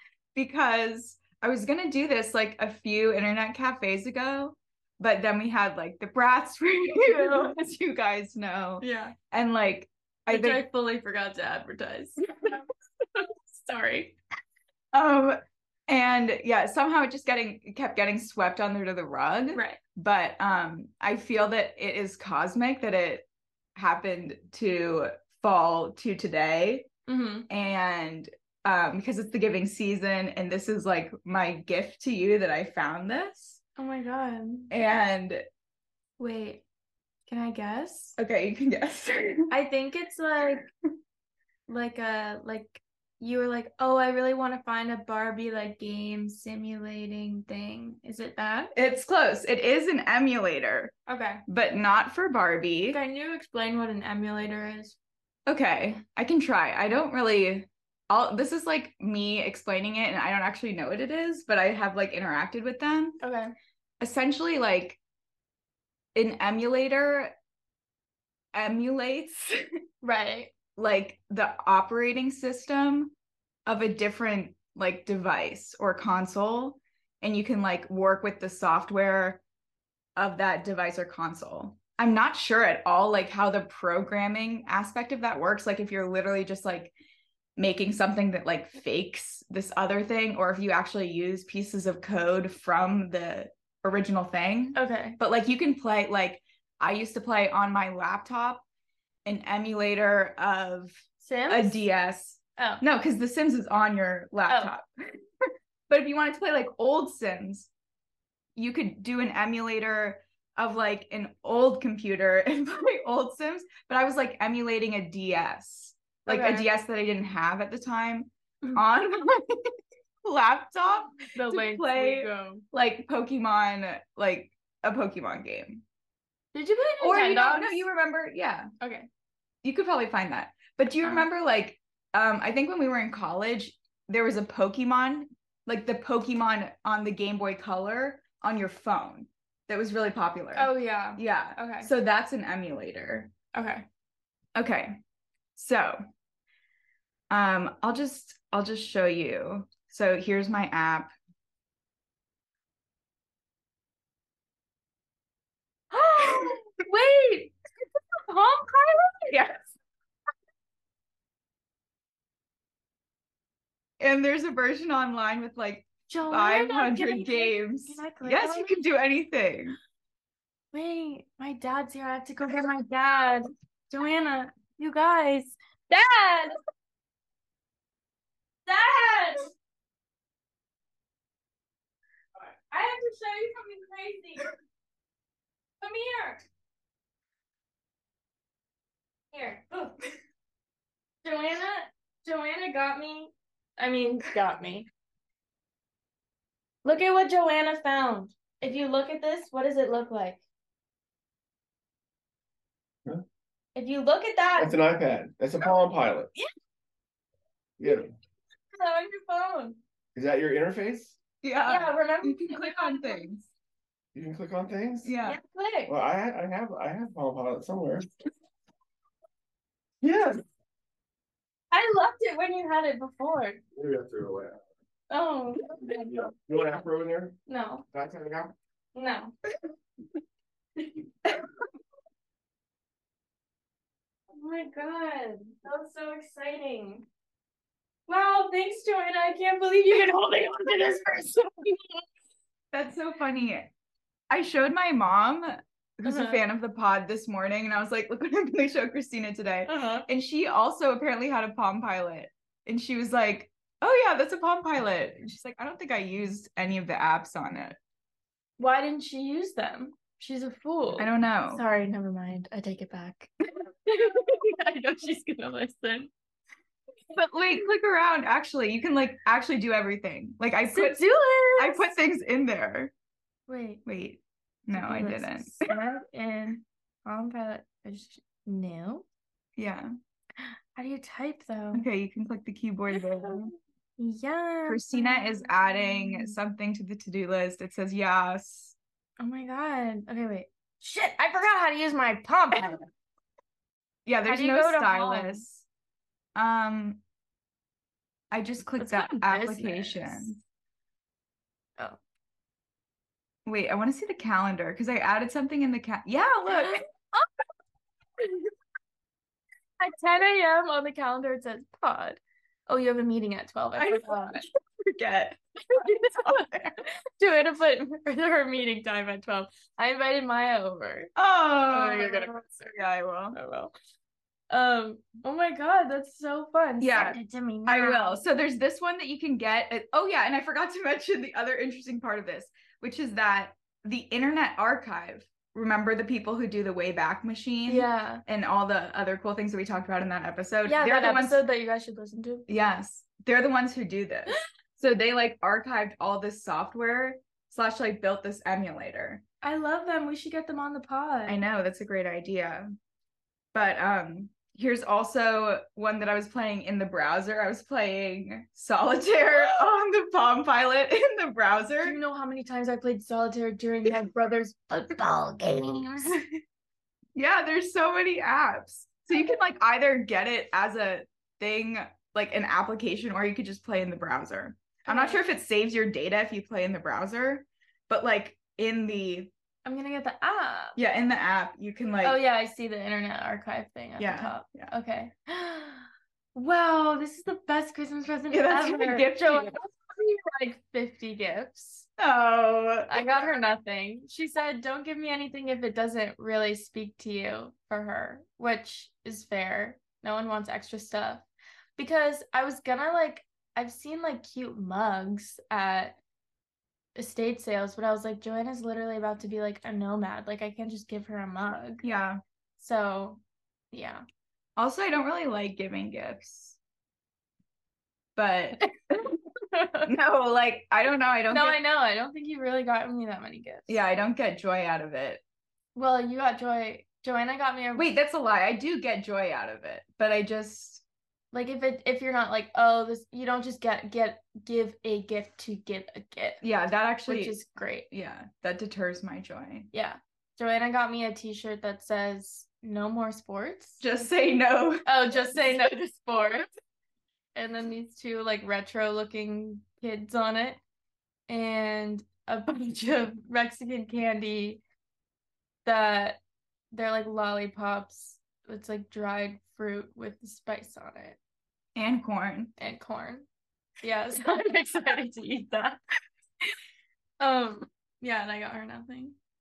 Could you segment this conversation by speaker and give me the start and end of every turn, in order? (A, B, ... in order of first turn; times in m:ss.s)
0:00.3-0:10.6 A
0:08.8-0:09.1 B
0:10.3-0:12.6 B
0:13.1-0:14.2 B
0:14.9-0:26.9 A
0:19.5-0:19.8 B
0:27.1-0:27.5 B
0:27.5-0:33.6 A
0:33.8-0:34.7 B
0:34.7-0:35.4 A
0:36.2-0:36.6 B
0:37.3-0:38.2 B
0:38.2-0:39.5 A
0:39.5-0:40.7 B
0:41.7-0:48.7 B
0:48.7-0:50.9 A
0:51.0-0:51.4 B
0:51.5-0:53.0 A
0:52.9-0:55.0 B
0:55.4-1:03.2 A
1:03.2-1:03.5 B
1:04.0-1:05.0 A
1:06.1-1:07.3 A
1:08.5-1:09.6 A
1:10.0-1:10.5 B
1:10.8-1:13.1 A
1:13.6-1:19.4 A
1:20.2-1:26.9 A
1:27.6-1:38.6 A
1:34.7-1:35.2 B
1:39.2-1:45.2 A
1:41.2-1:41.8 B
1:42.6-1:42.8 B
1:44.5-1:44.7 B
1:45.9-1:47.7 A
1:48.6-2:05.8 A
1:56.2-1:56.7 B
2:01.3-2:02.6 B
2:06.5-2:07.8 B
2:07.0-2:08.7 A
2:08.8-2:09.1 B
2:09.6-2:23.3 A
2:20.6-2:21.9 B
2:23.5-2:23.8 B
2:24.5-2:25.0 A
2:25.6-2:26.0 A
2:27.3-2:31.1 A
2:35.9-2:37.5 B
2:36.2-2:36.6 A
2:38.3-2:39.3 B
2:39.3-2:39.7 A
2:44.0-2:49.8 A
2:46.1-2:48.8 B
2:50.7-2:56.5 B
2:58.6-2:59.5 B
3:02.4-3:04.5 B
3:05.8-3:06.4 B
3:09.3-3:10.0 B
3:11.2-3:14.9 B
3:16.8-3:20.4 B
3:23.7-3:24.8 B
3:24.6-3:26.3 C
3:27.8-3:28.1 C
3:28.7-3:29.8 B
3:30.1-3:31.2 C
3:31.4-3:33.5 A
3:31.6-3:33.3 B
3:34.1-3:35.1 C
3:35.0-3:35.4 A
3:35.2-3:35.9 B
3:35.9-3:38.1 C
3:40.0-3:40.4 C
3:41.7-3:43.6 B
3:43.8-3:44.6 C
3:45.1-3:46.2 B
3:46.1-3:47.4 C
3:47.5-3:47.8 B
3:47.9-3:48.5 C
3:48.9-3:49.3 B
3:54.3-3:57.0 B
3:58.1-4:02.0 B
4:02.7-4:03.7 A
4:04.3-4:17.8 A
4:06.0-4:06.4 B
4:09.6-4:10.0 B
4:18.6-4:26.1 B
4:21.0-4:21.6 A
4:27.1-4:31.0 A
4:30.7-4:31.9 B
4:31.6-4:32.9 A
4:33.5-4:33.8 B
4:33.8-4:35.5 A
4:34.7-4:39.0 B
4:39.6-4:39.9 A
4:40.4-4:41.8 B
4:41.7-4:43.5 A
4:44.0-4:46.4 B
4:44.7-4:48.8 A
4:49.2-4:52.9 B
4:54.0-4:55.6 A
4:54.2-4:55.4 B
4:56.3-4:57.0 A
4:58.3-5:00.4 A
4:58.8-5:00.3 B
5:03.4-5:06.8 A
5:06.5-5:07.2 B
5:09.8-5:14.4 B
5:13.8-5:16.4 A
5:15.7-5:21.1 B
5:21.2-5:23.4 A
5:21.7-5:22.8 B
5:23.3-5:23.7 B
5:24.5-5:28.2 B
5:26.8-5:41.4 A
5:37.7-5:38.2 B
5:40.6-5:42.4 B
5:42.5-5:49.2 A
5:49.4-5:51.4 B
5:51.3-5:52.7 A
5:53.5-6:02.0 A
6:01.8-6:06.2 B
6:07.1-6:19.3 A
6:14.8-6:15.2 B
6:19.6-6:20.8 B
6:20.8-6:22.2 A
6:22.0-6:31.9 B
6:24.0-6:24.7 A
6:28.3-6:29.6 A
6:32.0-6:33.0 A
6:32.9-6:41.2 B
6:41.8-6:46.0 B
6:47.0-6:51.8 B
6:51.8-6:52.2 A
6:52.6-6:53.2 B
6:53.7-6:54.0 B
6:54.6-6:56.6 A
6:58.2-6:58.6 A
6:59.5-6:59.9 B
6:59.9-7:01.6 A
7:01.3-7:03.8 B
7:03.7-7:05.2 A
7:05.7-7:07.9 B
7:07.8-7:10.8 A
7:11.3-7:16.4 B
7:16.4-7:17.4 A
7:17.1-7:17.9 B
7:17.9-7:19.7 A
7:19.7-7:23.8 B
7:23.8-7:24.8 A
7:24.8-7:26.5 B
7:27.3-7:30.6 B
7:31.3-7:34.6 B
7:35.6-7:36.2 B
7:36.7-7:41.2 B
7:41.8-7:42.5 A
7:42.6-7:43.3 B
7:43.8-7:45.8 B
7:47.2-7:49.2 B